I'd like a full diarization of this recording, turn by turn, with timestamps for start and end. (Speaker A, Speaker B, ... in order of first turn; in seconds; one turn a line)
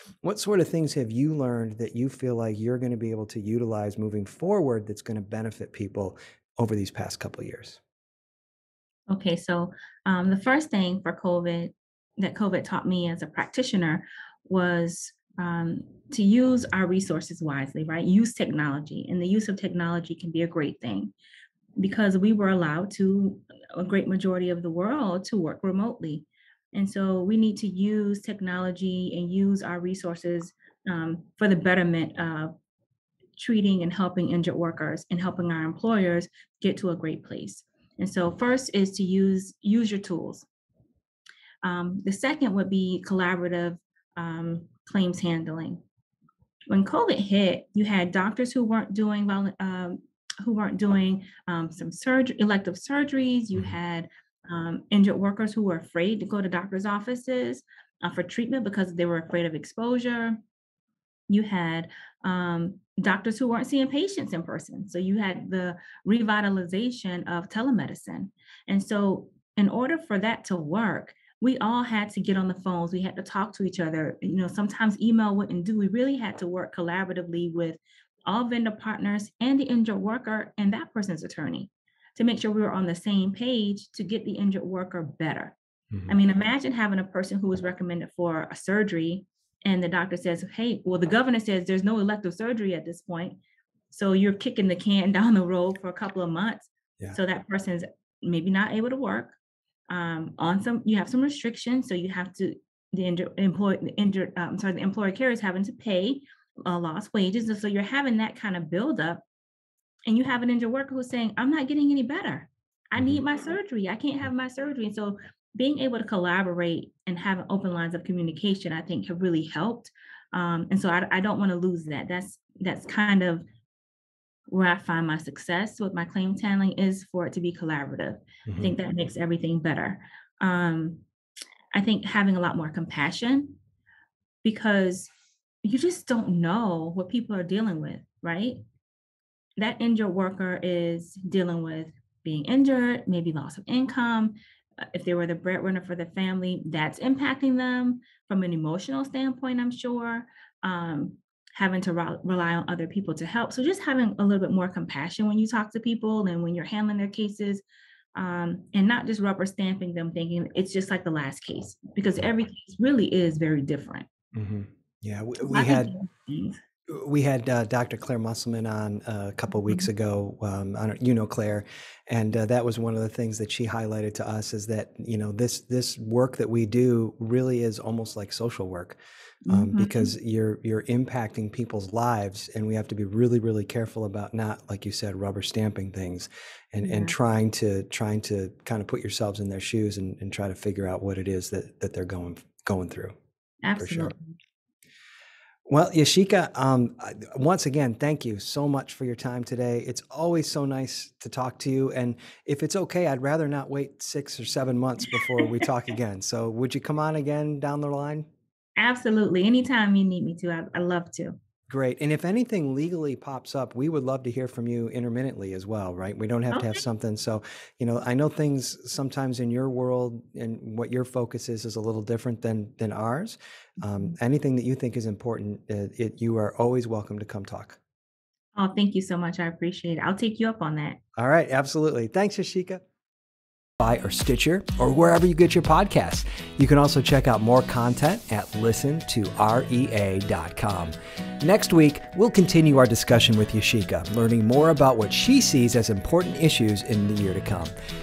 Speaker A: 0.2-7.8
Speaker B: 9.1-21.1
Speaker B: 21.8-32.5
Speaker B: 33.4-40.5
Speaker B: 41.6-45.8
Speaker B: 46.7-60.4
Speaker B: 61.3-85.6
Speaker B: 86.1-93.4
Speaker B: 93.9-99.4
Speaker B: 99.9-109.2
Speaker B: 110.1-123.4
Speaker B: 124.5-131.0
Speaker A: 128.5-128.8
Speaker B: 131.7-133.6
Speaker B: 134.4-135.1
Speaker B: 135.6-138.6
Speaker B: 139.6-144.4
Speaker B: 144.9-157.6
Speaker B: 158.2-164.1
Speaker A: 164.3-165.9
Speaker B: 165.5-166.6
Speaker A: 166.9-179.0
Speaker B: 169.6-169.9
Speaker B: 179.5-180.1
Speaker A: 179.5-193.1
Speaker B: 186.8-187.2
Speaker B: 193.6-194.4
Speaker A: 193.8-194.1
Speaker A: 195.7-208.3
Speaker B: 205.1-205.4
Speaker B: 208.8-211.4
Speaker A: 211.7-227.8
Speaker B: 216.5-216.8
Speaker B: 223.9-224.1
Speaker B: 228.6-231.0
Speaker A: 231.2-232.8
Speaker A: 233.8-247.7